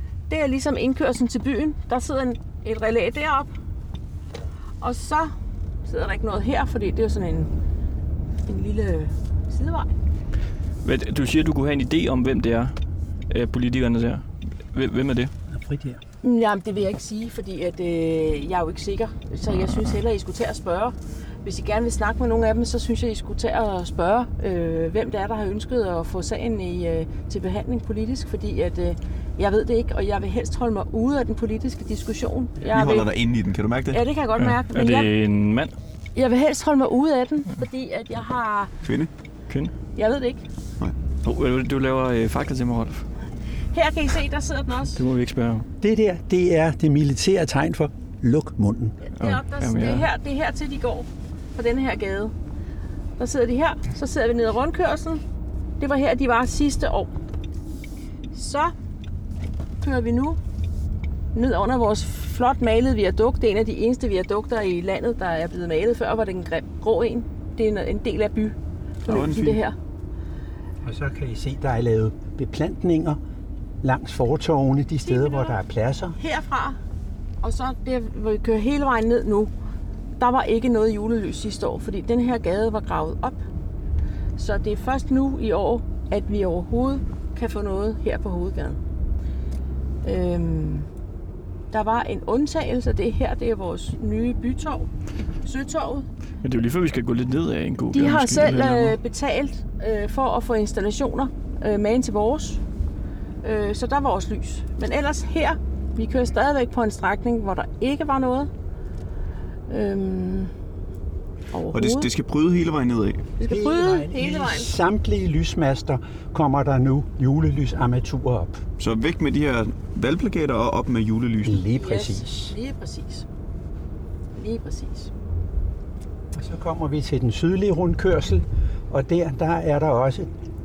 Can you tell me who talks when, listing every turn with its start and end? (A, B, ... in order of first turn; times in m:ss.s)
0:00.3-0:03.5 A
0:04.8-0:05.3 A
0:05.8-0:07.5 A
0:08.4-0:09.9 A
0:10.8-0:12.8 B
0:13.3-0:15.3 B
0:15.5-0:16.0 C
0:16.2-0:33.1 A
0:32.6-0:34.0 D
0:33.9-0:35.1 A
0:34.4-0:35.8 B
0:36.1-0:38.7 A
0:38.8-0:39.1 D
0:39.5-0:39.7 B
0:39.9-0:40.4 A
0:41.2-0:43.1 B
0:43.7-0:45.0 A
0:44.9-0:45.7 B
0:45.8-0:49.0 C
0:49.1-0:52.3 A
0:49.2-0:50.1 B
0:53.2-0:55.2 A
0:55.8-0:57.1 A
0:58.3-0:58.7 A
0:59.8-1:00.4 A
1:01.3-1:09.8 A
1:09.0-1:09.6 D
1:10.8-1:13.2 C
1:13.8-1:16.2 C
1:15.0-1:15.6 A
1:16.2-1:16.8 A
1:17.4-1:19.5 A
1:20.2-1:23.4 A
1:24.4-1:28.8 A
1:30.0-1:30.9 A
1:31.7-1:34.9 A
1:35.4-1:36.1 A
1:36.4-1:39.0 B
1:37.9-1:42.6 A
1:43.4-1:48.5 A
1:49.7-1:50.5 A
1:51.5-1:52.1 A
1:51.7-1:53.3 D
1:53.4-1:54.8 A
1:53.4-1:58.6 C
1:58.8-2:01.6 D
2:01.4-2:02.5 C
2:01.7-2:03.2 A
2:04.3-2:05.1 A
2:06.3-2:10.3 C